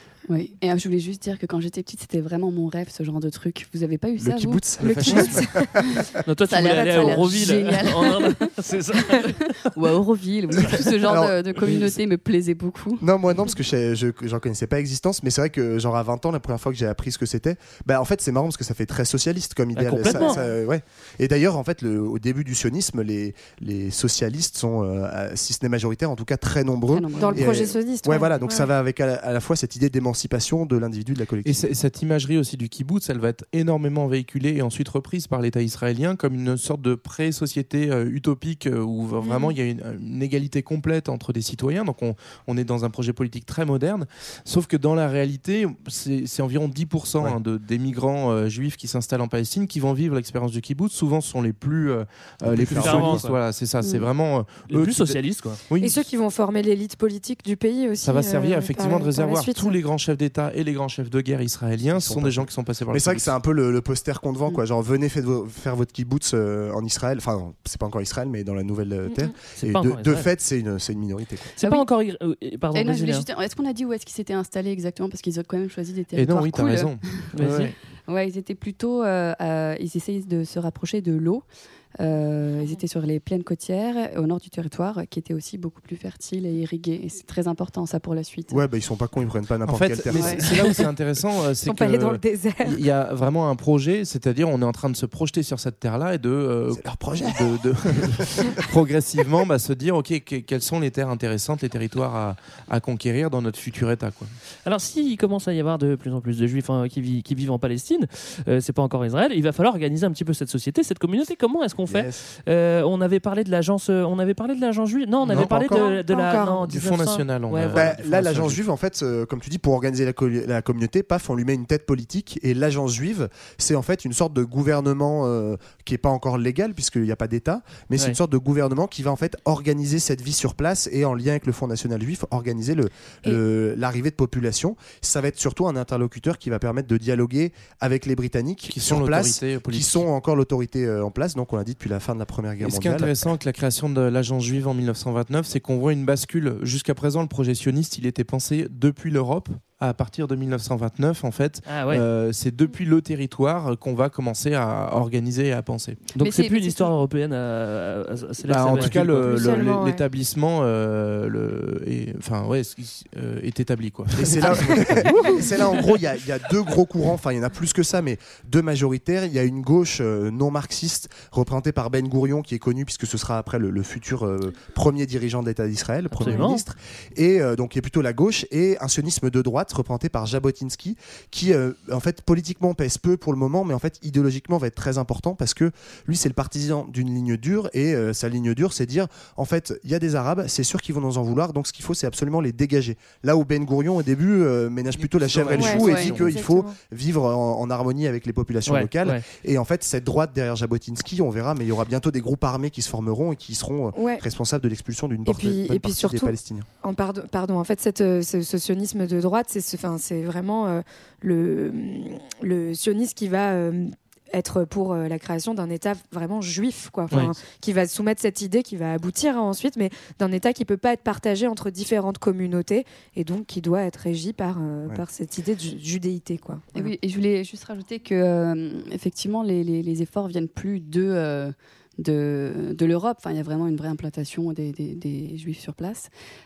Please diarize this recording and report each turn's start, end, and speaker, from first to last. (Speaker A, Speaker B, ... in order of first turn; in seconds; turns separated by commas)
Speaker A: 0.3-5.3, Speaker B: 4.2-6.0, Speaker C: 4.8-5.7, Speaker A: 5.9-8.5, Speaker D: 6.3-9.7, Speaker A: 9.1-13.1, Speaker D: 10.6-10.9, Speaker B: 11.0-11.3, Speaker B: 13.0-31.7, Speaker D: 19.8-20.4, Speaker C: 20.1-20.5, Speaker A: 26.9-27.6, Speaker C: 27.2-28.7, Speaker E: 31.4-56.0, Speaker C: 39.2-39.5, Speaker B: 52.4-53.2, Speaker D: 52.7-53.4, Speaker A: 53.8-54.1, Speaker D: 54.7-55.6, Speaker C: 55.8-59.8, Speaker E: 58.0-63.3, Speaker B: 61.9-71.5, Speaker C: 69.1-69.3, Speaker D: 69.6-70.3, Speaker D: 71.6-73.3, Speaker A: 71.6-71.9, Speaker A: 72.7-81.5, Speaker E: 76.1-77.7, Speaker D: 77.3-77.7, Speaker A: 82.0-88.6, Speaker B: 88.5-90.4, Speaker E: 89.7-104.3, Speaker A: 90.1-90.5, Speaker C: 91.7-92.8, Speaker B: 96.7-98.6, Speaker D: 104.7-117.9, Speaker B: 111.9-112.2, Speaker E: 115.3-115.9, Speaker C: 115.3-116.7, Speaker E: 116.7-118.6, Speaker B: 117.7-143.2, Speaker E: 138.7-140.1, Speaker E: 142.6-156.0, Speaker D: 151.7-152.0, Speaker D: 156.2-159.4, Speaker A: 156.2-156.9, Speaker E: 158.5-165.2, Speaker C: 159.2-160.0, Speaker B: 164.1-206.7, Speaker D: 176.2-176.6, Speaker C: 176.3-176.5, Speaker E: 195.0-196.3, Speaker C: 195.6-196.8, Speaker A: 195.6-196.1, Speaker D: 198.7-199.2, Speaker C: 203.9-204.2, Speaker C: 205.3-226.8, Speaker A: 226.7-236.1